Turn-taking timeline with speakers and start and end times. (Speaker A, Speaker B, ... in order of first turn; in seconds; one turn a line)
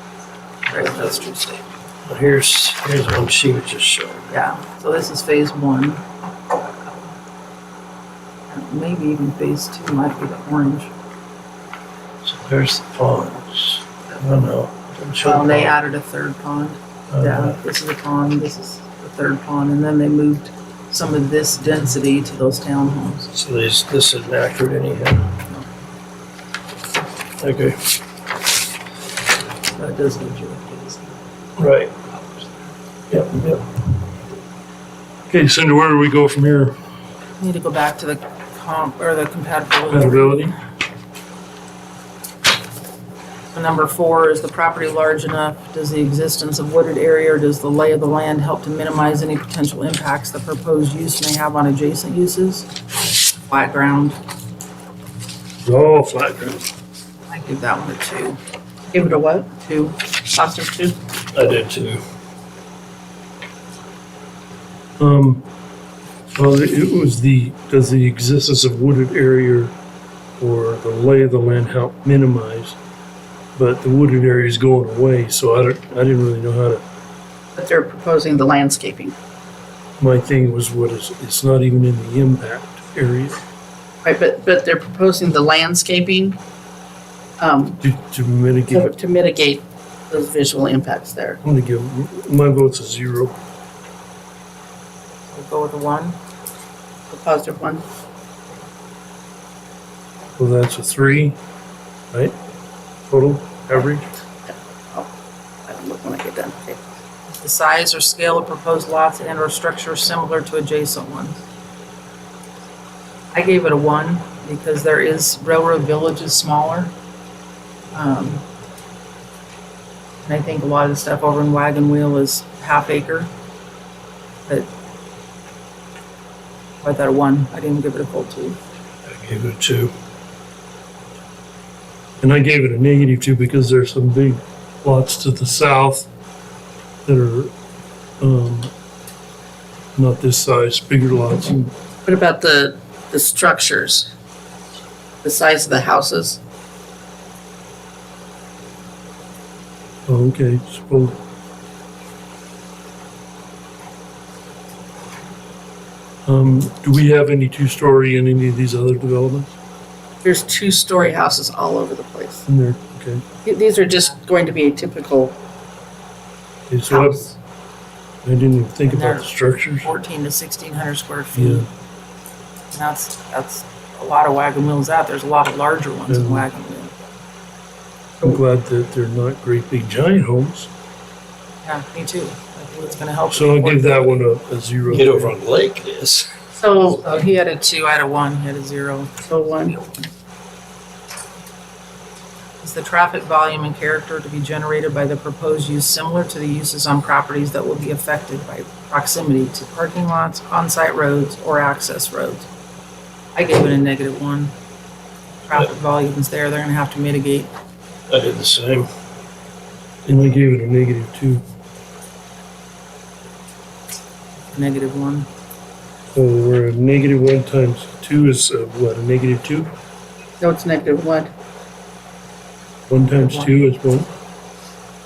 Speaker A: 0.7-1.5
Speaker B: 2.0-4.3
Speaker A: 4.3-6.9
Speaker A: 8.5-10.9
Speaker B: 12.2-15.7
Speaker C: 14.4-15.1
Speaker A: 15.2-23.3
Speaker C: 23.3-23.7
Speaker B: 23.4-25.3
Speaker B: 27.4-27.8
Speaker A: 29.7-31.2
Speaker C: 31.6-31.9
Speaker C: 33.1-33.6
Speaker C: 35.3-36.8
Speaker A: 37.4-40.5
Speaker C: 39.9-40.5
Speaker A: 43.5-52.6
Speaker A: 53.5-54.2
Speaker C: 55.6-56.6
Speaker A: 57.3-58.4
Speaker D: 58.9-59.5
Speaker A: 59.5-60.0
Speaker D: 60.2-61.0
Speaker B: 61.3-62.0
Speaker C: 65.0-65.4
Speaker C: 66.3-69.7
Speaker C: 70.4-72.8
Speaker C: 73.5-76.8
Speaker D: 77.5-79.1
Speaker C: 80.0-83.4
Speaker D: 84.0-86.4
Speaker D: 87.4-87.8
Speaker C: 87.8-88.9
Speaker D: 88.7-91.4
Speaker C: 91.4-93.3
Speaker A: 95.3-96.2
Speaker D: 97.1-97.8
Speaker C: 100.4-101.3
Speaker C: 103.1-104.1
Speaker D: 104.5-105.1
Speaker D: 105.7-106.8
Speaker A: 107.4-111.4
Speaker A: 113.3-116.9
Speaker A: 117.9-118.4
Speaker A: 120.2-123.3
Speaker A: 126.8-128.6
Speaker C: 129.1-129.9
Speaker B: 129.6-129.8
Speaker C: 132.2-136.1
Speaker C: 137.1-137.5
Speaker C: 138.2-138.7
Speaker C: 139.9-141.7
Speaker D: 142.0-144.1
Speaker D: 145.2-146.4
Speaker C: 150.1-151.2
Speaker C: 156.2-159.5
Speaker D: 160.2-162.4
Speaker C: 162.4-163.2
Speaker D: 163.4-165.3
Speaker C: 166.7-167.3
Speaker D: 166.9-167.3
Speaker C: 168.2-169.9
Speaker A: 168.8-171.7
Speaker C: 171.3-171.7
Speaker A: 172.7-177.1
Speaker C: 176.1-176.5
Speaker C: 178.2-180.7
Speaker A: 181.6-184.2
Speaker C: 183.3-185.4
Speaker B: 184.9-186.3
Speaker D: 186.5-187.0
Speaker A: 186.9-190.1
Speaker D: 189.2-189.7
Speaker A: 192.6-202.5
Speaker A: 203.3-204.5
Speaker A: 205.4-207.5
Speaker B: 208.1-208.8
Speaker C: 208.1-208.8
Speaker C: 210.1-211.4
Speaker A: 214.5-215.3
Speaker C: 216.1-219.7
Speaker D: 220.4-221.3
Speaker C: 222.9-224.1
Speaker A: 223.1-223.6